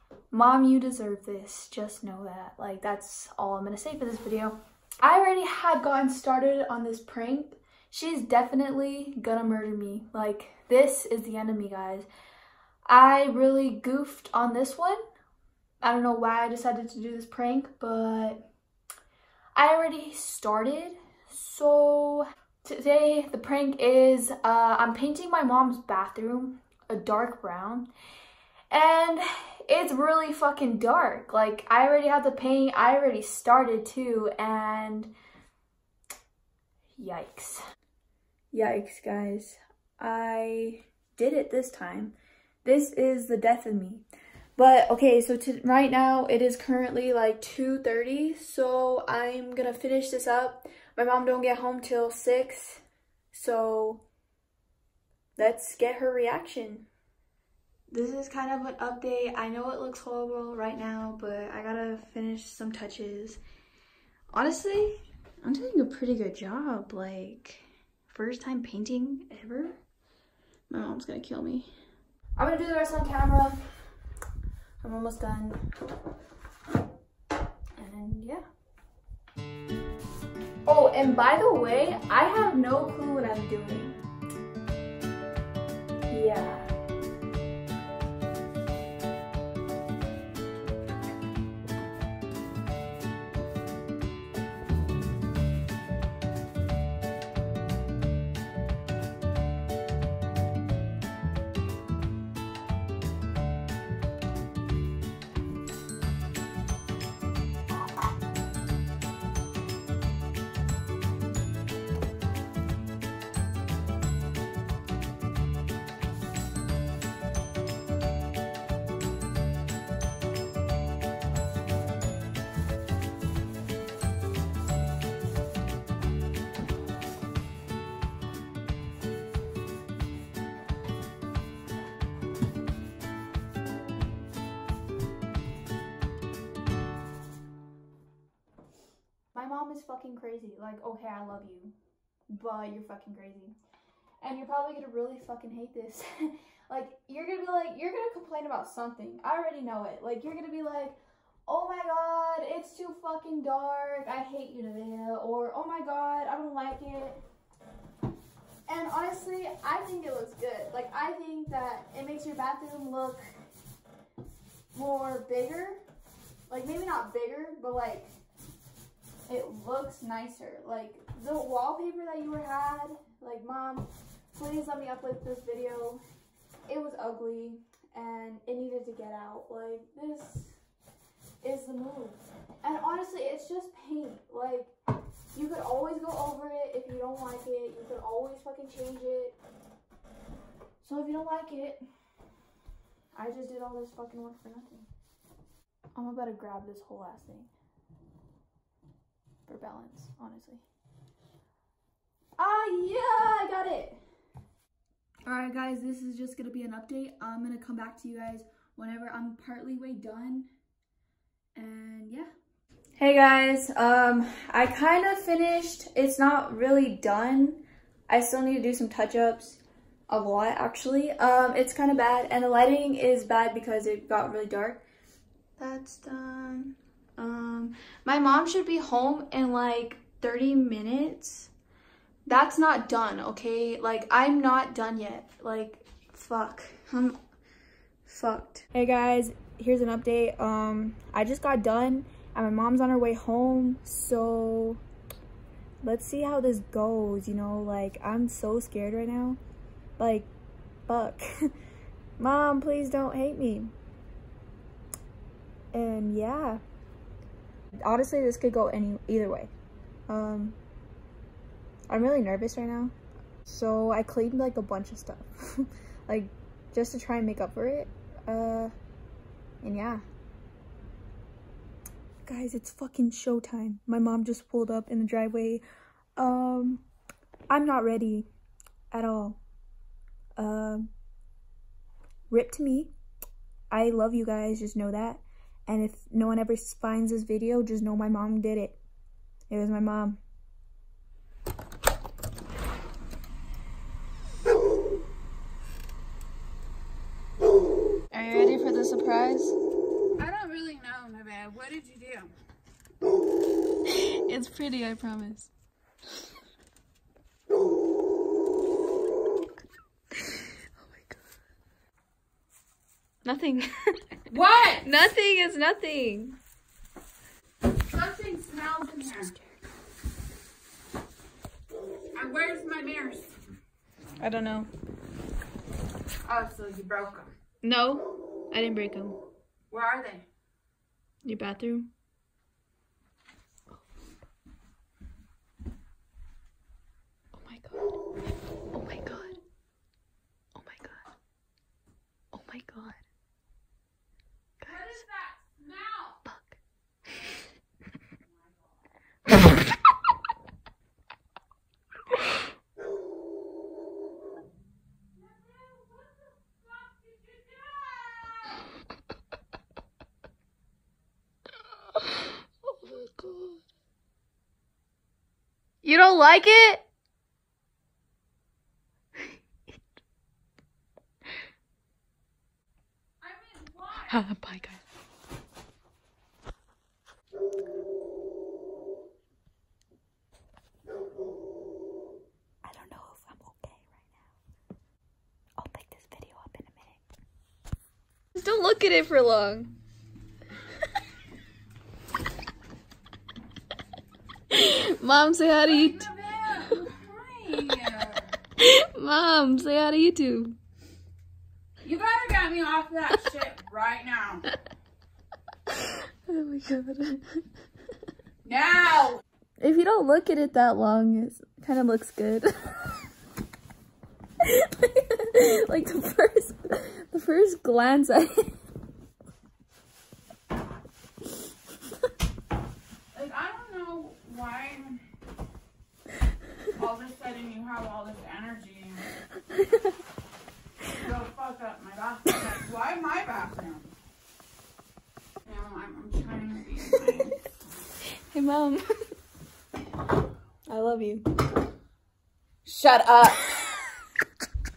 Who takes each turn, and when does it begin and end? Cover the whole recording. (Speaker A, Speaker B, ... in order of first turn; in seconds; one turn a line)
Speaker A: 0.3-12.1
Speaker A: 12.9-15.0
Speaker A: 15.8-18.5
Speaker A: 19.6-27.9
Speaker A: 28.7-35.1
Speaker A: 37.0-37.6
Speaker A: 38.5-44.0
Speaker A: 44.6-54.0
Speaker A: 55.4-56.9
Speaker A: 57.9-63.4
Speaker A: 64.3-69.8
Speaker A: 70.7-71.7
Speaker A: 72.3-73.6
Speaker A: 74.8-75.6
Speaker A: 77.8-78.4
Speaker A: 80.7-84.0
Speaker A: 86.1-86.7
Speaker A: 139.3-141.7
Speaker A: 142.3-143.5
Speaker A: 144.2-157.2
Speaker A: 158.7-163.3
Speaker A: 164.7-165.8
Speaker A: 166.5-168.1
Speaker A: 169.3-176.0
Speaker A: 176.7-180.6
Speaker A: 181.4-184.7
Speaker A: 185.3-189.4
Speaker A: 190.8-191.8
Speaker A: 193.1-194.9
Speaker A: 195.9-197.5
Speaker A: 199.4-200.6
Speaker A: 202.4-204.0
Speaker A: 205.2-210.5
Speaker A: 211.6-212.3
Speaker A: 213.0-224.8
Speaker A: 225.6-231.5
Speaker A: 232.3-237.2
Speaker A: 238.1-244.8
Speaker A: 245.8-249.4
Speaker A: 250.0-250.3
Speaker A: 250.9-251.2
Speaker A: 252.2-253.7
Speaker A: 255.7-256.6
Speaker A: 257.8-259.5
Speaker A: 260.1-260.6
Speaker A: 261.9-262.9
Speaker A: 263.4-268.7
Speaker A: 269.6-270.0
Speaker A: 272.2-275.6
Speaker A: 276.2-276.8
Speaker A: 277.5-278.3
Speaker A: 278.9-279.4
Speaker A: 280.4-280.9
Speaker A: 282.3-282.9
Speaker A: 283.7-288.8
Speaker A: 289.5-290.2
Speaker A: 298.1-299.6
Speaker B: 300.2-302.3
Speaker A: 303.9-305.5
Speaker A: 310.3-311.2
Speaker A: 313.2-313.7
Speaker B: 314.3-314.9
Speaker A: 314.8-316.4
Speaker B: 317.8-319.3
Speaker B: 322.1-323.3
Speaker A: 324.2-324.7
Speaker B: 326.2-327.3
Speaker A: 327.6-329.2
Speaker B: 329.7-330.2
Speaker A: 331.2-331.9
Speaker A: 337.3-337.9
Speaker A: 338.7-339.4
Speaker A: 340.6-341.0
Speaker A: 342.3-343.0
Speaker A: 344.6-345.0
Speaker B: 344.6-346.2
Speaker A: 346.2-346.6
Speaker B: 348.2-348.6
Speaker B: 355.1-358.7
Speaker A: 362.6-363.6
Speaker A: 365.8-366.9
Speaker B: 373.2-374.3
Speaker A: 374.1-374.8
Speaker A: 382.6-384.2
Speaker A: 385.6-387.0
Speaker A: 388.3-389.7
Speaker A: 394.5-396.1
Speaker B: 395.6-398.3
Speaker A: 398.6-400.6
Speaker B: 401.8-404.4
Speaker A: 405.7-407.4
Speaker B: 408.4-409.2
Speaker A: 409.6-413.0
Speaker A: 414.4-418.5
Speaker B: 423.1-425.0
Speaker B: 426.7-429.1
Speaker B: 430.8-433.9
Speaker B: 435.4-437.9
Speaker A: 436.9-437.1
Speaker A: 438.1-438.9
Speaker A: 440.7-441.3
Speaker B: 442.6-443.6